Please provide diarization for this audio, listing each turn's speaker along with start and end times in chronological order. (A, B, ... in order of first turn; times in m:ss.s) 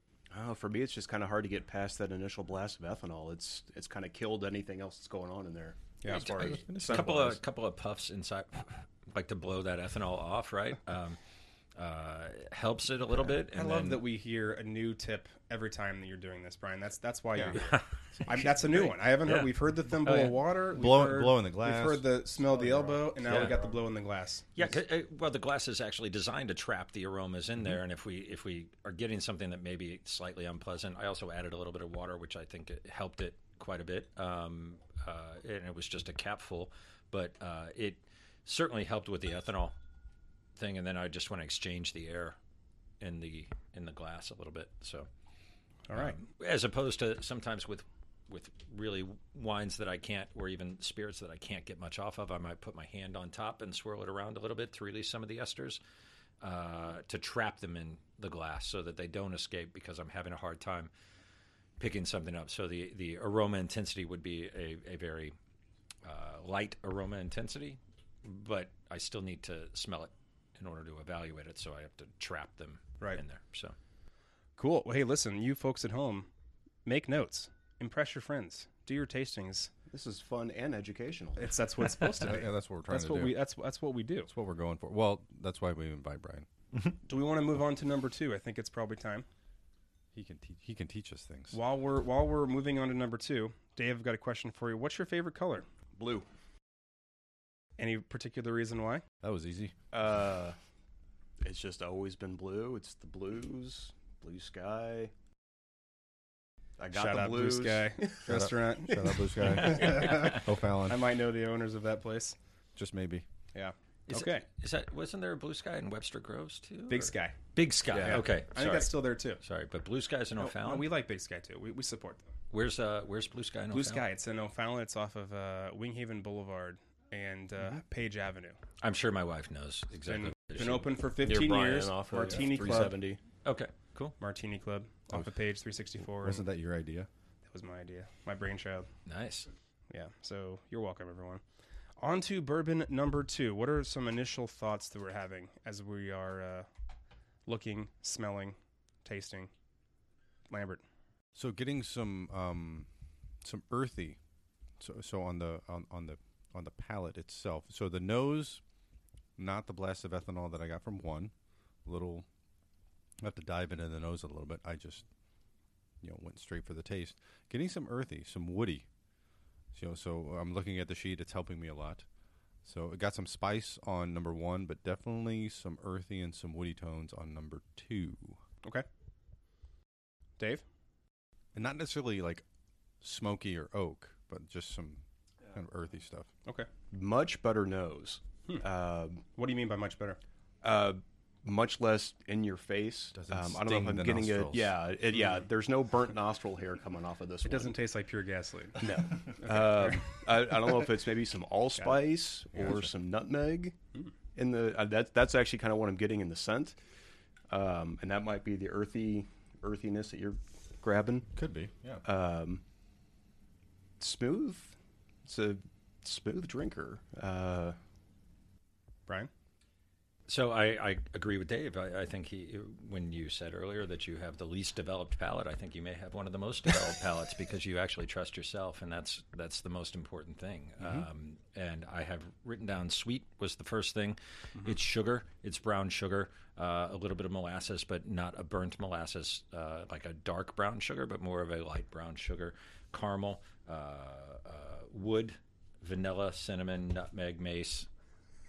0:00.3-0:07.4 A
0:06.0-0:06.3 B
0:06.3-0:11.2 C
0:06.3-0:07.1 D
0:11.7-0:14.0 C
0:13.2-0:24.7 B
0:17.5-0:20.4 C
0:18.1-0:18.4 D
0:20.7-0:23.5 D
0:23.2-0:23.5 C
0:24.5-0:39.7 C
0:40.6-0:42.4 C
0:43.0-0:45.1 C
0:45.9-0:46.2 B
0:45.9-0:55.8 C
0:56.4-1:00.9 C
1:01.8-1:05.3 C
1:06.0-1:13.7 C
1:14.6-1:16.3 B
1:16.8-1:19.7 B
1:19.9-1:21.6 A
1:21.4-1:24.3 B
1:22.1-1:23.4 D
1:24.3-1:26.5 D
1:27.1-1:29.2 B
1:30.1-1:31.6 D
1:31.5-1:35.6 B
1:36.0-1:36.2 A
1:37.8-1:39.0 B
1:39.2-1:39.7 D
1:39.9-1:40.6 A
1:41.4-1:45.1 A
1:46.8-1:48.3 A
1:46.9-1:52.4 B
1:48.2-1:51.0 D
1:52.8-1:53.2 D
1:53.5-1:54.4 B
1:54.1-2:00.9 C
1:56.9-1:57.3 B
1:57.9-1:58.3 A
1:58.0-1:59.4 B
2:00.4-2:02.3 B
2:02.5-2:04.0 C
2:03.7-2:08.6 B
2:08.8-2:10.9 C
2:10.1-2:13.0 B
2:11.2-2:13.2 A
2:13.4-2:14.1 C
2:14.2-2:16.4 B
2:16.0-2:17.1 D
2:17.5-2:18.9 B
2:19.0-2:19.5 C
2:19.9-2:21.4 B
2:22.0-2:26.7 B
2:27.5-2:29.5 B
2:30.5-2:30.8 B
2:31.3-2:32.9 D
2:33.4-2:34.2 D
2:34.8-2:38.6 D
2:39.4-2:41.3 D
2:41.8-2:42.2 D
2:43.2-2:45.0 D
2:46.0-2:48.8 D
2:49.7-2:52.0 D
2:52.6-2:58.4 D
3:01.5-3:02.4 D
3:03.0-3:06.3 D
3:06.9-3:09.2 A
3:09.4-3:10.2 B
3:10.6-3:17.7 A
3:13.1-3:14.8 D
3:17.4-3:20.2 B
3:18.8-3:23.8 A
3:22.5-3:22.9 D
3:24.3-3:26.8 A
3:27.5-3:31.3 A
3:31.3-3:32.0 D
3:32.0-3:32.6 A
3:34.0-3:37.8 A
3:40.3-4:07.9 C